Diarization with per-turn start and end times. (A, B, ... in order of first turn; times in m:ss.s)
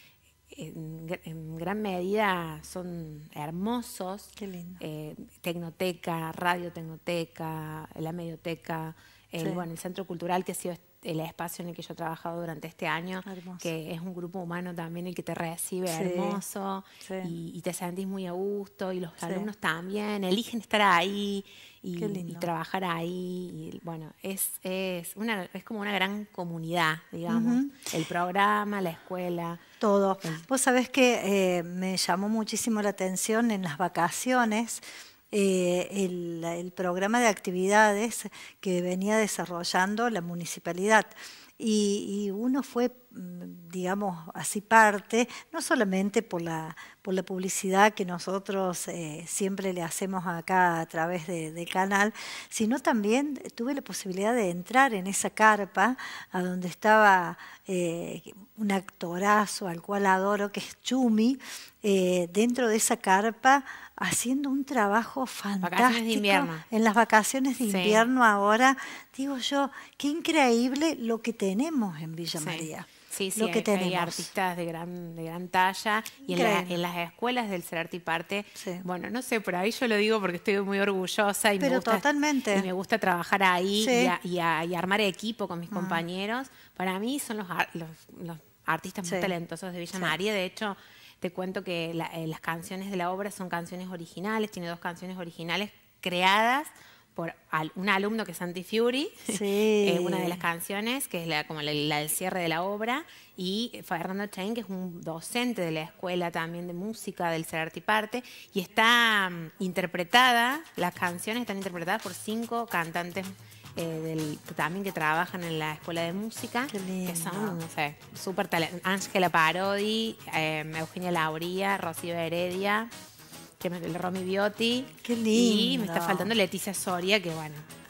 0:00.5-0:29.6 A
0:04.4-0:04.8 B
0:13.2-0:13.6 B
0:15.9-0:16.4 B
0:17.0-0:17.3 B
0:19.2-0:19.5 B
0:22.0-0:22.5 B
0:27.3-0:27.7 B
0:29.8-1:14.3 B
1:05.6-1:06.6 A
1:07.6-1:08.0 A
1:12.4-2:02.9 A
1:16.3-1:16.8 B
1:18.6-1:18.8 B
1:21.6-1:22.6 B
1:23.8-1:24.1 B
1:25.7-1:26.0 B
1:29.0-1:29.3 B
1:39.3-1:40.4 B
1:56.7-1:57.6 B
2:03.6-2:07.7 A
2:05.0-2:06.3 B